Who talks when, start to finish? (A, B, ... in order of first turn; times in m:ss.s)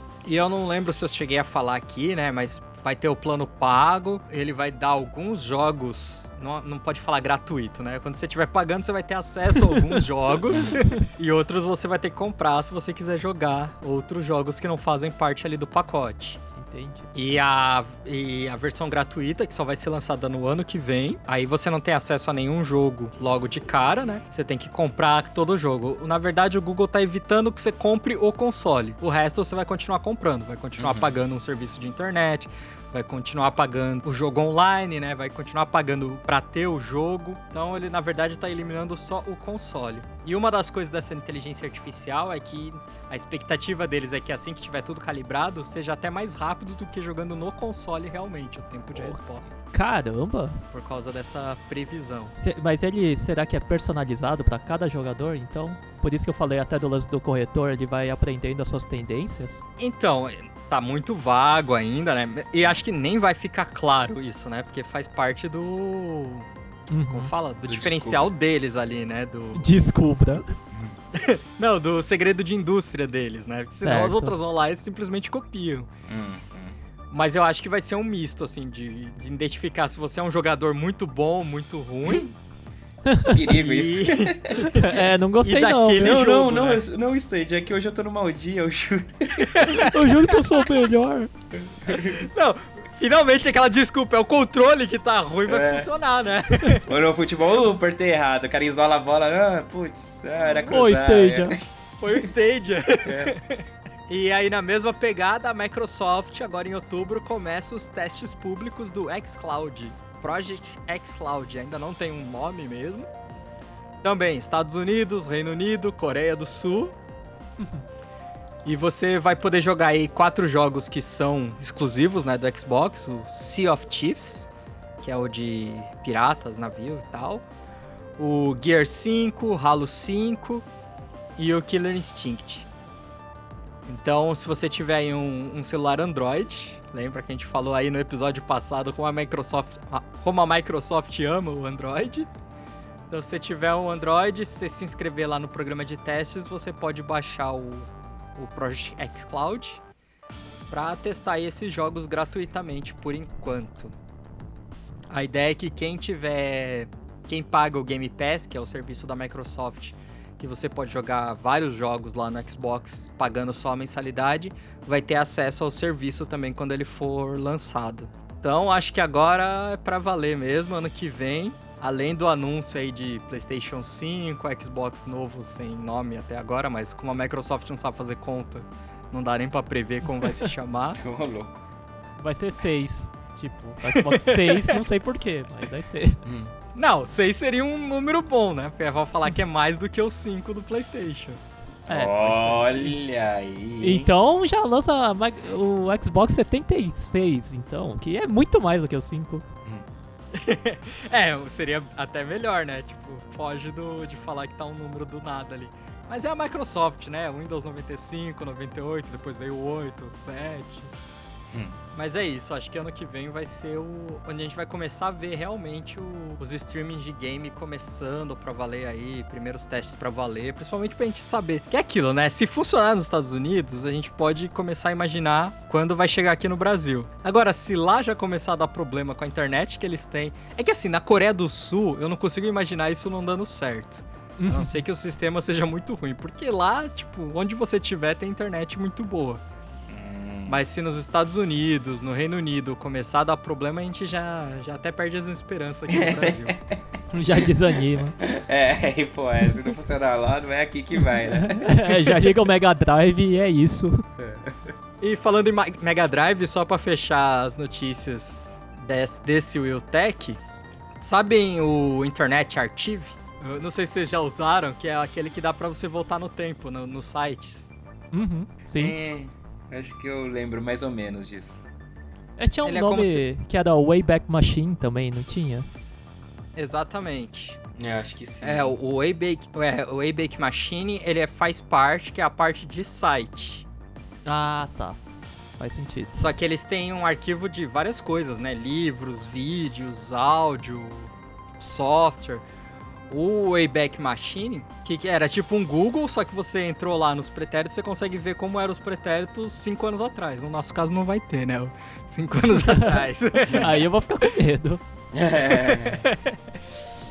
0:00.2-0:16.4 A
0:10.5-0:10.8 B
0:10.5-0:11.0 C
0:16.6-0:17.1 C
0:17.1-0:49.6 A
0:30.8-0:31.1 B
0:49.7-0:50.6 C
0:50.7-0:52.3 A
0:52.4-0:59.6 C
0:59.8-1:06.5 A
1:06.9-1:07.3 C
1:07.1-1:09.7 A
1:07.6-1:08.3 B
1:09.5-1:10.5 C
1:10.7-1:11.0 B
1:11.1-1:15.9 A
1:13.8-1:14.4 C
1:16.1-1:16.8 B
1:17.1-1:22.2 A
1:22.0-1:22.3 B
1:23.0-1:23.4 C
1:23.2-1:24.8 B
1:23.5-1:24.9 A
1:24.6-1:26.2 C
1:25.4-1:26.8 A
1:25.9-1:29.8 B
1:29.4-1:29.9 A
1:29.7-1:31.3 C
1:31.5-1:32.2 B
1:31.9-1:36.9 A
1:35.5-1:35.9 B
1:36.8-1:42.2 B
1:40.6-1:41.6 C
1:42.0-1:53.1 A
1:43.0-1:43.3 B
1:54.0-1:56.9 A
1:58.6-2:04.5 A
2:05.0-2:07.4 A
2:08.2-2:10.6 A
2:11.4-2:12.7 A
2:13.8-2:22.3 A
2:23.1-2:29.8 A
2:30.7-2:33.9 A
2:35.1-3:01.0 A
3:01.0-3:01.6 B
3:02.2-3:06.2 C
3:03.9-3:04.8 A
3:06.2-3:06.5 B
3:06.7-3:11.4 A
3:11.9-3:13.0 C
3:11.9-3:14.1 B
3:13.8-3:19.4 C
3:20.3-3:30.9 A
3:31.5-3:31.8 B
3:31.9-3:59.4 A
3:54.4-3:54.8 C
3:59.9-4:00.6 B
4:00.5-4:06.6 A
4:05.9-4:06.8 B
4:07.1-4:08.2 C
4:07.4-4:12.3 B
4:11.4-4:14.0 C
4:14.2-4:14.7 B
4:15.0-4:20.4 A
4:21.0-4:27.7 A
4:28.1-4:29.0 C
4:28.8-4:31.7 B
4:32.4-4:35.7 C
4:32.6-4:33.2 A
4:36.6-4:37.6 A
4:37.8-4:38.8 B
4:38.4-4:43.6 A
4:44.2-4:45.0 C
4:45.6-4:46.3 C
4:46.1-4:52.4 A
4:53.1-5:03.8 A
5:02.5-5:04.8 C
5:05.1-5:06.0 B
5:05.6-5:06.6 A